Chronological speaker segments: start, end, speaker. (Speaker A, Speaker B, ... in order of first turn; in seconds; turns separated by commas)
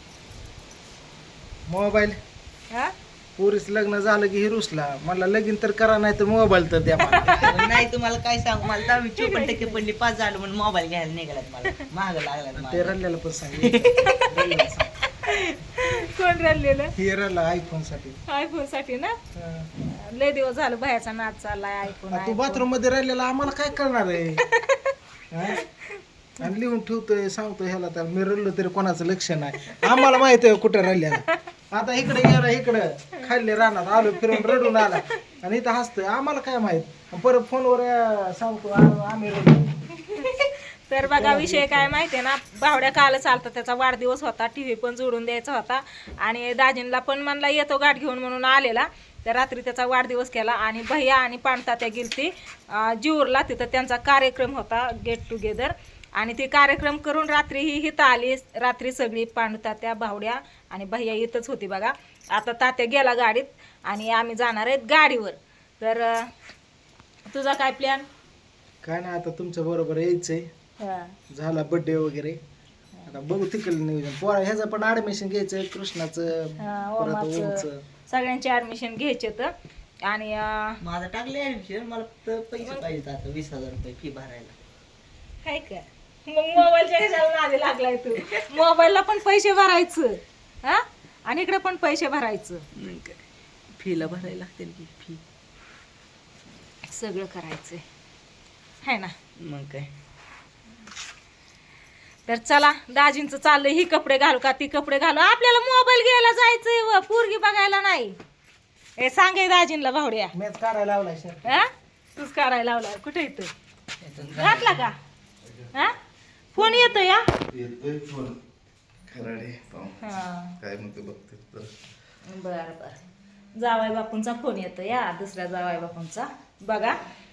Speaker A: 1.7-2.2, Speaker A: 3.4-7.5, Speaker B: 7.1-7.5, Speaker C: 7.3-13.0, Speaker B: 9.1-9.8, Speaker A: 12.5-14.9, Speaker C: 13.6-14.1, Speaker B: 14.0-14.4, Speaker B: 15.2-16.9, Speaker A: 17.0-18.2, Speaker B: 18.3-19.1, Speaker A: 19.3-19.7, Speaker B: 19.8-22.6, Speaker A: 22.1-24.4, Speaker B: 24.5-24.8, Speaker A: 25.3-25.6, Speaker A: 26.4-39.8, Speaker B: 29.7-30.1, Speaker B: 34.3-34.6, Speaker B: 40.0-66.3, Speaker A: 41.0-41.9, Speaker B: 67.3-68.1, Speaker A: 68.8-70.5, Speaker B: 70.8-71.1, Speaker A: 71.3-72.4, Speaker A: 73.0-77.8, Speaker B: 76.6-79.5, Speaker B: 80.0-80.8, Speaker C: 80.8-84.5, Speaker B: 85.4-92.6, Speaker C: 92.8-93.2, Speaker C: 93.8-95.2, Speaker B: 96.9-97.8, Speaker B: 98.8-99.1, Speaker C: 99.4-99.9, Speaker B: 102.2-108.2, Speaker B: 109.0-110.3, Speaker A: 110.3-111.6, Speaker B: 111.5-113.5, Speaker C: 114.0-114.8, Speaker B: 114.4-115.0, Speaker B: 116.5-117.2, Speaker D: 117.5-118.4, Speaker D: 119.1-121.7, Speaker B: 120.0-120.5, Speaker B: 122.3-123.0, Speaker B: 123.5-127.0